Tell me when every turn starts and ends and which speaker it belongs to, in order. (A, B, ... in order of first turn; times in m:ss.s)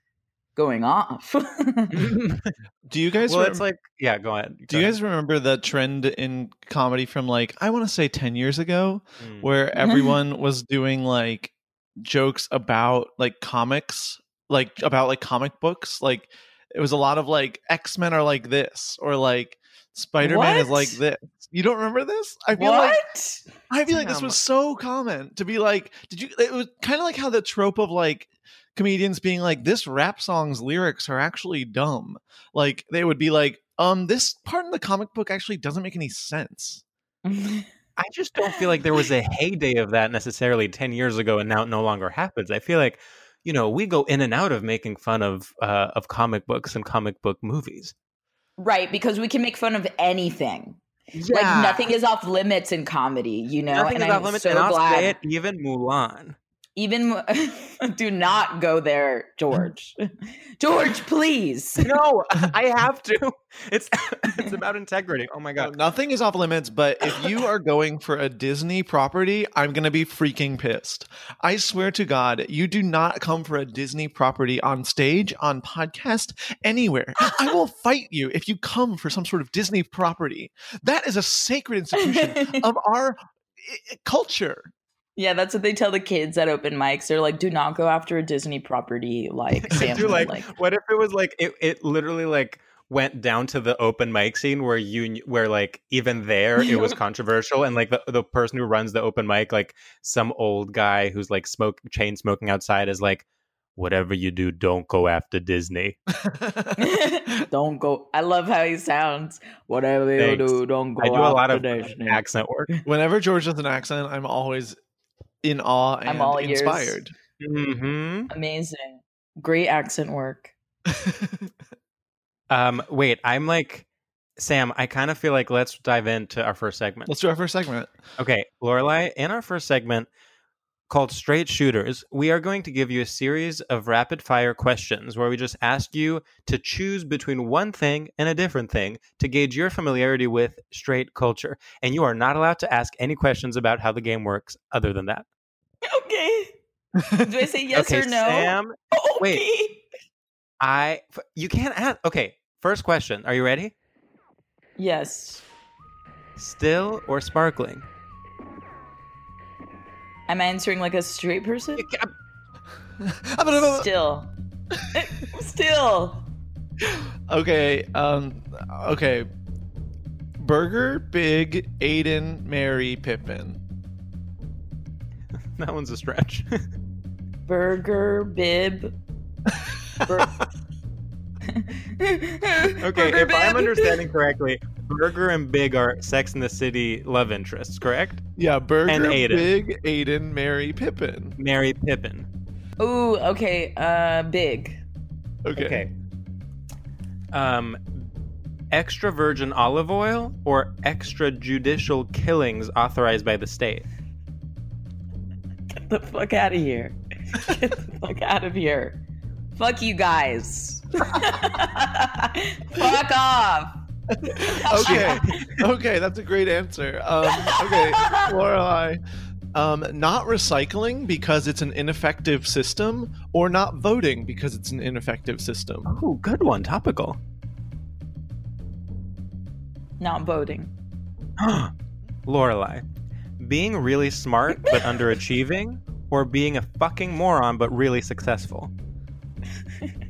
0:00.6-0:02.0 A
0:01.9-0:02.5 B
0:02.9-0:03.6 C
0:03.3-0:05.0 B
0:04.7-0:23.0 C
0:09.2-0:09.5 B
0:09.8-0:10.2 A
0:20.2-0:21.0 A
0:22.5-0:23.4 A
0:23.7-0:36.8 C
0:23.9-0:24.4 B
0:37.2-0:37.7 A
0:38.0-0:47.9 B
0:48.6-0:50.8 A
0:51.1-0:51.8 B
0:51.3-0:55.2 A
0:53.7-0:56.4 B
0:56.8-1:00.0 A
1:00.6-1:01.9 A
1:01.8-1:05.7 B
1:05.6-1:24.7 C
1:22.0-1:22.6 A
1:25.2-1:30.5 A
1:29.6-1:43.2 B
1:43.8-1:46.0 B
1:46.2-1:46.7 C
1:46.8-1:52.8 A
1:50.2-1:52.7 B
1:52.9-1:54.8 C
1:55.4-1:57.1 C
1:56.1-1:57.0 A
1:57.4-1:58.3 B
1:58.3-2:00.5 A
2:00.9-2:01.5 C
2:02.5-2:03.9 B
2:04.4-2:07.1 B
2:07.1-2:07.9 C
2:08.2-2:10.1 B
2:10.9-2:25.2 B
2:25.9-2:26.5 A
2:27.2-2:29.8 A
2:27.7-2:29.4 B
2:30.6-2:33.7 B
2:34.8-2:35.4 A
2:36.4-2:37.8 B
2:40.3-2:41.8 A
2:41.8-2:42.1 B
2:43.0-2:43.9 C
2:43.5-2:44.3 A
2:44.9-2:46.2 A
2:46.8-2:49.3 C
2:50.4-2:53.6 C
2:55.6-2:56.6 B
2:57.5-2:58.9 A
3:00.0-3:00.4 A
3:01.5-3:04.0 A
3:02.8-3:08.2 B
3:08.4-3:11.4 C
3:08.9-3:09.5 B
3:11.4-3:12.3 B
3:12.8-3:14.8 A
3:15.4-3:15.8 C
3:15.6-3:15.9 B
3:17.3-3:18.0 B
3:18.7-3:23.9 B
3:25.8-3:29.0 A
3:29.6-3:33.7 A
3:34.2-3:39.0 C
3:34.5-3:35.4 A
3:34.8-3:35.6 B
3:37.3-3:38.3 A
3:39.5-3:45.9 C
3:45.9-3:47.2 B
3:50.0-3:50.7 A
3:51.4-3:51.7 B
3:52.3-3:52.8 B
3:53.4-3:58.7 B